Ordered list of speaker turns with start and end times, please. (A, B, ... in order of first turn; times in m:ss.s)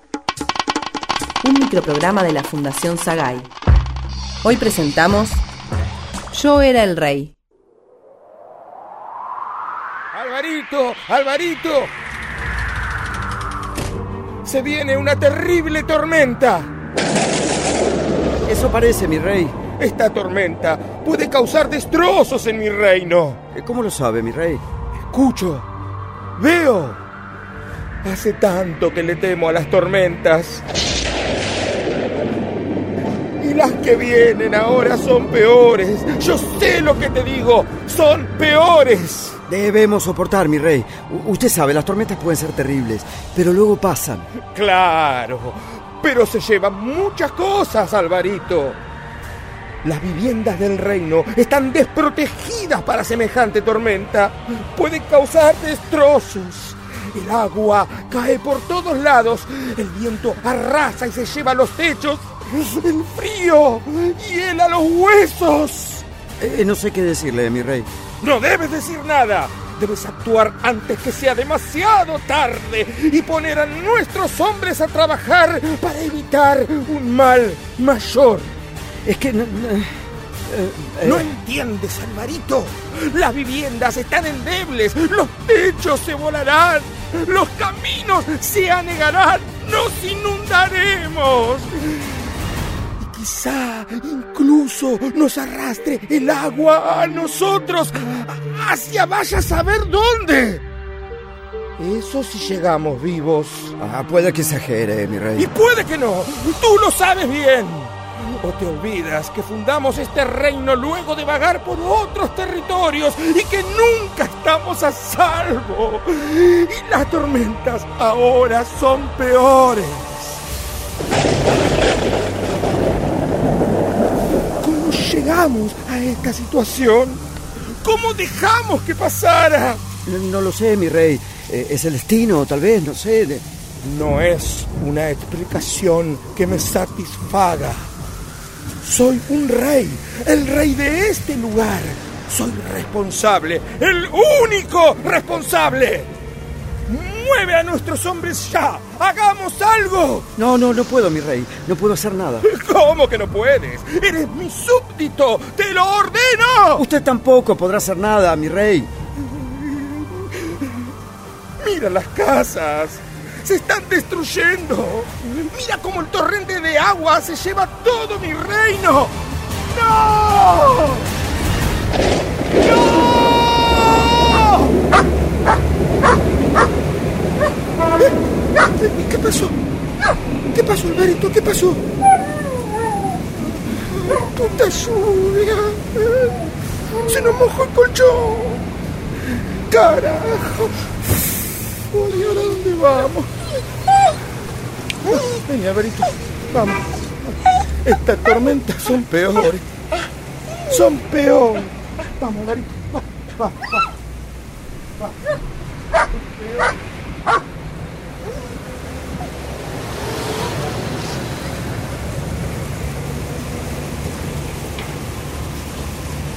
0:01.4-0:03.5 A
0:04.4-0:05.4 A
0:06.3-0:07.4 A
0:10.1-0:11.9 B
0:14.4-0:16.7 B
0:18.4-0:19.6 C
0:19.8-0:23.4 B
0:23.5-0:24.6 C
0:25.1-0:25.7 B
0:26.4-0:27.0 B
0:28.0-0:30.6 B
0:33.4-0:39.4 B
0:39.5-0:44.3 C
0:44.5-0:48.8 B
0:49.8-1:06.0 B
1:06.4-1:07.9 C
1:08.2-1:18.5 B
1:19.0-1:21.3 C
1:21.0-1:32.2 B
1:33.0-1:40.6 B
1:41.8-1:43.7 B
1:43.8-1:45.5 C
1:45.4-2:00.4 B
2:04.6-2:07.2 B
2:07.8-2:09.8 B
2:10.0-2:13.4 C
2:13.8-2:17.9 B
2:18.8-2:26.1 B
2:26.9-2:30.3 B
2:30.4-2:32.5 C
2:32.4-2:36.9 B
2:36.8-2:38.9 C
2:41.6-2:49.2 B
2:49.7-2:51.1 B
2:52.6-2:54.7 B
2:58.6-2:59.5 B
3:00.5-3:01.8 B
3:03.9-3:06.4 B
3:07.0-3:08.7 B
3:09.7-3:10.9 B
3:11.9-3:13.3 B
3:15.0-3:19.6 B
3:20.7-3:23.8 B